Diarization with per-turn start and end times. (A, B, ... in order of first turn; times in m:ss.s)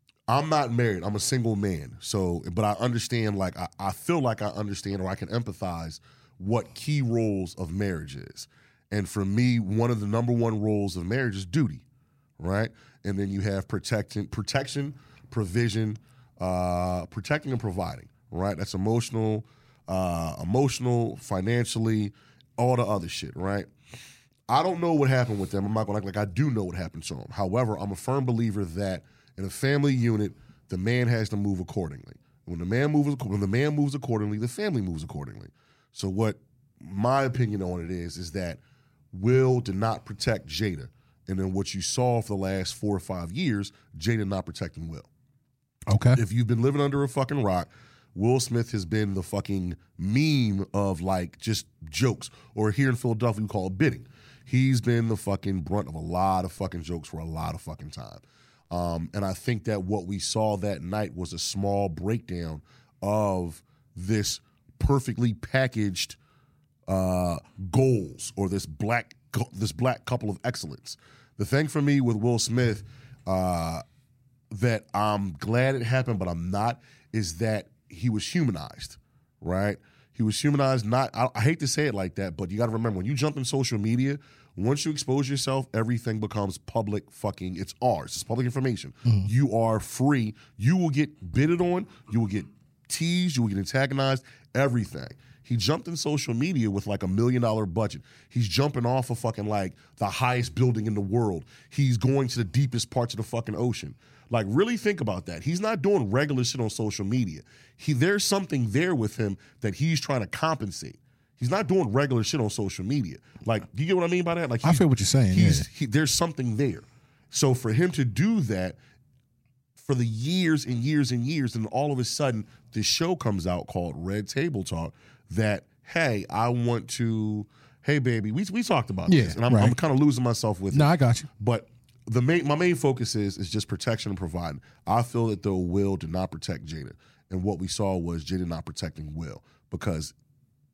0:00.3-0:11.8 A
0:12.4-0:23.7 A
0:24.5-0:38.6 A
0:39.1-0:45.1 A
0:45.9-0:46.2 B
0:46.1-1:06.2 A
1:06.9-1:13.8 A
1:14.5-1:58.8 A
1:54.6-1:55.6 B
1:59.8-2:20.1 A
2:09.1-2:09.8 B
2:10.7-2:11.3 B